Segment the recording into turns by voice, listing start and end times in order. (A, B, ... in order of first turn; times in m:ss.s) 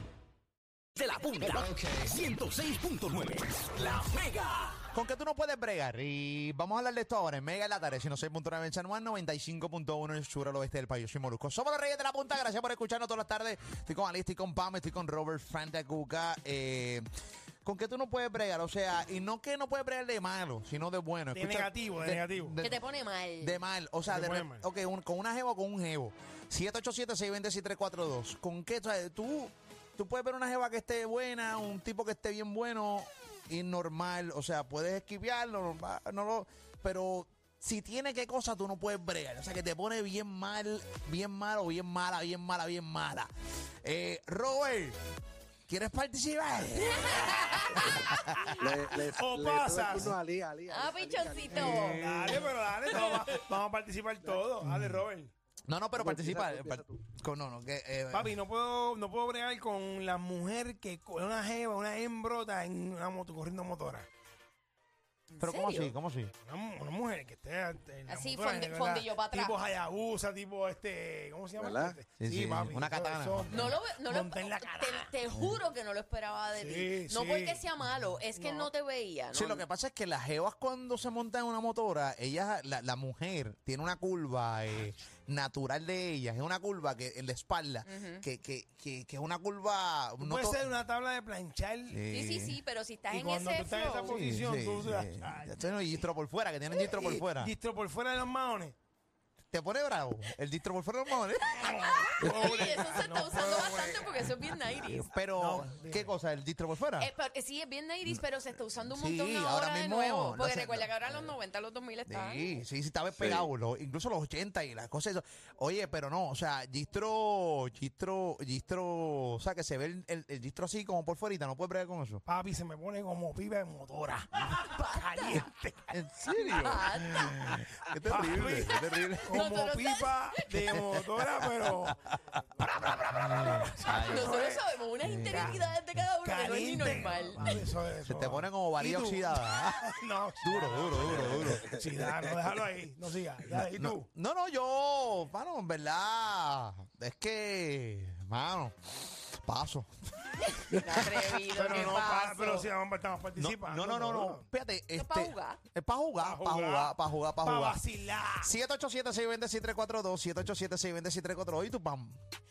0:01.0-0:04.8 A
0:01.6-0:02.0 B
0:04.9-0:17.1 B
0:17.6-0:22.8 B
0:21.3-0:22.6 C
0:22.6-0:23.6 D
0:23.4-0:43.3 B
0:24.1-0:24.6 C
0:43.8-0:45.0 B
0:45.7-0:48.5 B
0:46.8-0:48.2 D
0:48.6-0:50.2 C
0:48.6-0:52.0 E
0:50.7-0:53.4 D
0:51.5-0:55.3 C
0:51.7-0:52.5 B
0:54.6-0:55.1 B
0:55.7-0:58.4 B
0:56.0-0:57.0 E
0:58.1-1:04.1 C
1:05.3-1:05.9 D
1:05.4-1:06.3 B
1:06.4-1:15.1 C
1:08.1-1:09.6 D
1:11.6-1:12.0 E
1:12.2-1:13.8 B
1:13.5-1:19.6 D
1:16.6-1:17.6 C
1:18.4-1:18.7 C
1:19.3-1:30.6 B
1:27.8-1:28.2 D
1:30.2-1:32.0 C
1:31.9-1:32.6 B
1:32.1-1:34.2 D
1:33.1-1:35.6 C
1:34.1-1:37.5 B
1:36.9-1:38.8 C
1:39.5-1:42.5 B
1:41.6-1:45.2 D
1:42.2-1:44.4 C
1:44.9-1:47.1 B
1:45.4-1:46.1 C
1:47.0-1:52.5 D
1:48.8-1:51.3 B
1:52.1-2:02.2 B
1:53.2-1:53.5 E
2:02.3-2:05.9 C
2:04.5-2:05.4 D
2:05.9-2:09.5 B
2:06.4-2:07.3 D
2:08.0-2:12.0 C
2:09.3-2:10.5 D
2:11.9-2:14.4 B
2:12.6-2:17.6 D
2:12.8-2:14.6 C
2:15.0-2:15.7 B
2:16.2-2:24.1 C
2:17.4-2:19.9 B
2:20.4-2:21.7 B
2:23.5-2:30.4 B
2:30.6-2:32.7 D
2:31.5-2:34.4 C
2:33.4-2:37.8 B
2:35.0-2:35.6 D
2:36.2-2:38.5 C
2:38.4-2:42.2 B